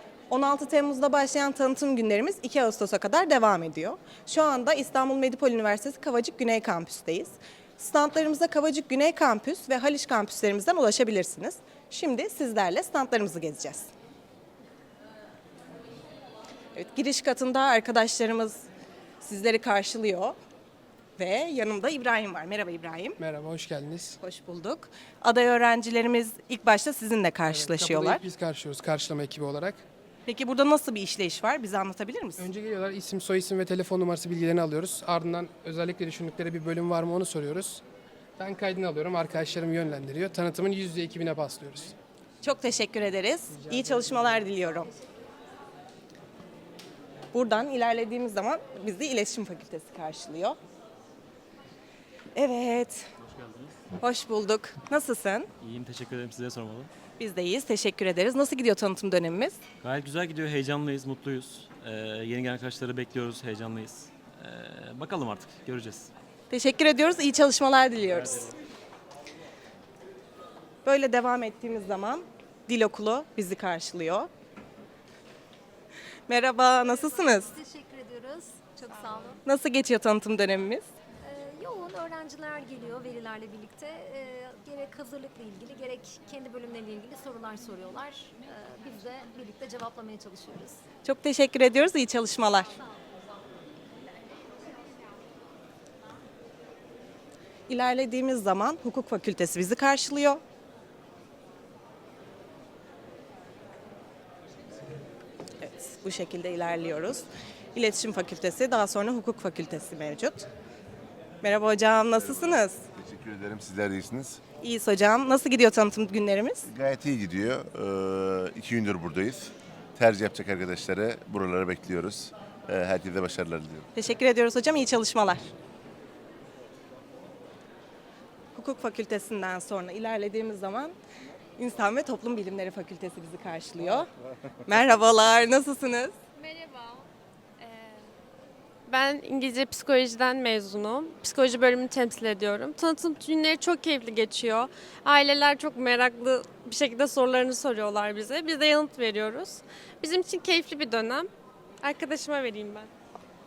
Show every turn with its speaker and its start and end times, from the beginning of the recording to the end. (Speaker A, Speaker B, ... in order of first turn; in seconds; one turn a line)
Speaker A: 0.3-13.9
Speaker A: 16.8-18.6
Speaker A: 19.2-20.4
Speaker A: 21.2-23.2
Speaker B: 23.2-24.2
Speaker A: 24.2-28.2
Speaker B: 27.5-29.8
Speaker A: 30.3-32.5
Speaker B: 32.4-37.8
Speaker B: 38.4-42.0
Speaker A: 42.4-44.9
Speaker A: 47.3-50.6
Speaker A: 52.4-53.1
Speaker A: 54.0-55.5
Speaker C: 55.6-56.9
Speaker A: 57.2-59.6
Speaker C: 59.8-66.1
Speaker A: 66.5-68.5
Speaker A: 70.8-74.3
Speaker A: 76.3-77.5
Speaker D: 76.9-79.4
Speaker A: 79.5-80.9
Speaker D: 81.2-90.8
Speaker A: 91.0-92.8
Speaker A: 97.7-100.4
Speaker A: 105.6-110.5
Speaker A: 111.4-112.8
Speaker E: 112.2-114.4
Speaker A: 114.6-116.7
Speaker E: 116.7-123.9
Speaker A: 124.0-125.5
Speaker A: 128.6-130.9
Speaker A: 131.6-134.1
Speaker A: 134.7-136.1
Speaker F: 138.9-151.3
Speaker F: 151.8-152.9